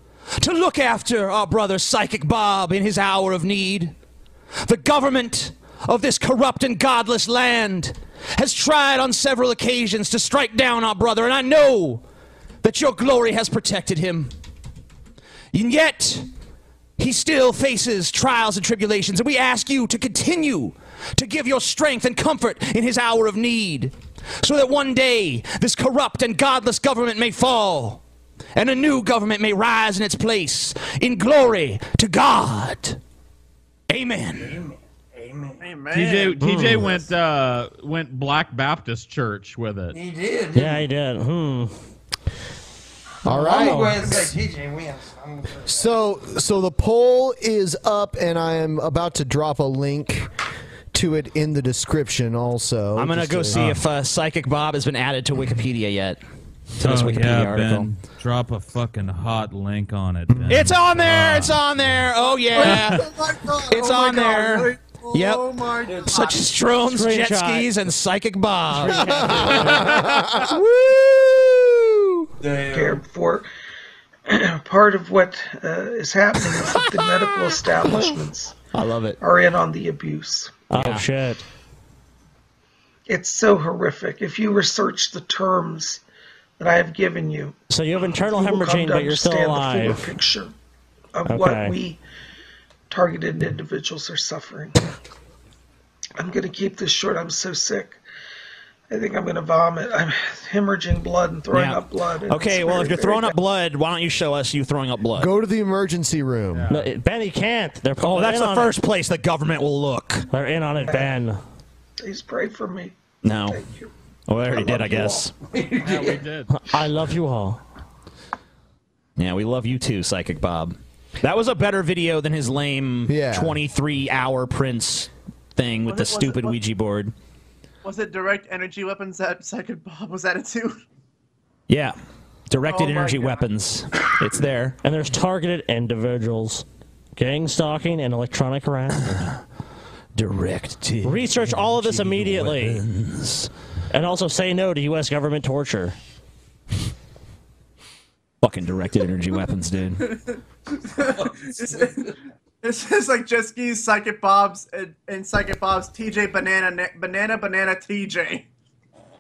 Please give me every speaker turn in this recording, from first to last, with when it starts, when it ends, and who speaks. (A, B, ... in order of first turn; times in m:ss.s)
0:00.4-0:03.9 A
0:04.6-0:12.0 A
0:12.6-0:14.3 A
0:15.5-0:16.2 A
0:17.0-0:28.0 A
0:28.6-0:33.0 A
0:33.9-0:34.6 A
0:34.4-0:35.7 B
0:35.6-0:36.6 C
0:35.9-0:39.9 D
0:36.4-0:36.9 E
0:39.9-0:40.9 B
0:40.5-0:41.7 E
0:43.2-0:44.3 F
0:43.2-0:45.8 B
0:45.6-0:50.3 F
0:50.9-0:53.6 F
0:53.0-0:56.2 A
0:53.5-0:53.8 D
0:56.8-0:57.9 A
0:56.8-1:01.6 D
1:00.3-1:00.6 F
1:00.5-1:03.0 A
1:02.2-1:06.5 C
1:02.6-1:03.0 D
1:03.7-1:05.4 A
1:06.0-1:09.4 A
1:06.9-1:07.7 E
1:08.7-1:10.0 E
1:09.1-1:10.5 F
1:10.4-1:11.5 A
1:12.4-1:13.0 B
1:12.7-1:13.5 G
1:14.3-1:18.5 G
1:17.8-1:18.1 A
1:18.7-1:19.2 A
1:19.2-1:20.6 G
1:20.7-1:21.4 E
1:20.7-1:21.0 A
1:23.1-1:26.0 G
1:26.6-1:27.5 G
1:27.7-1:30.1 E
1:28.2-1:30.5 G
1:31.1-1:32.0 G
1:31.2-1:31.7 E
1:32.9-1:34.8 G
1:36.2-1:38.0 G
1:38.9-1:43.3 G
1:41.5-1:45.3 A
1:45.2-1:46.7 F
1:46.5-1:46.8 D
1:46.7-1:48.7 E
1:48.0-1:50.2 A
1:50.3-1:51.4 E
1:50.8-1:51.1 G
1:52.0-1:53.9 G
1:53.2-1:53.6 A
1:54.3-1:55.3 A
1:54.5-1:56.2 B
1:54.6-1:54.9 G
1:55.8-1:56.5 D
1:56.5-1:57.6 E
1:59.2-2:07.1 A
2:03.1-2:03.6 F
2:05.8-2:06.6 C
2:07.8-2:10.8 C
2:11.7-2:12.0 A
2:12.5-2:14.8 A
2:12.6-2:13.5 C
2:14.8-2:16.6 E
2:17.2-2:19.1 E
2:20.2-2:23.5 A
2:21.0-2:22.8 E
2:23.9-2:25.9 E
2:28.4-2:30.0 A
2:30.0-2:32.0 C
2:31.2-2:32.0 B
2:32.6-2:38.5 C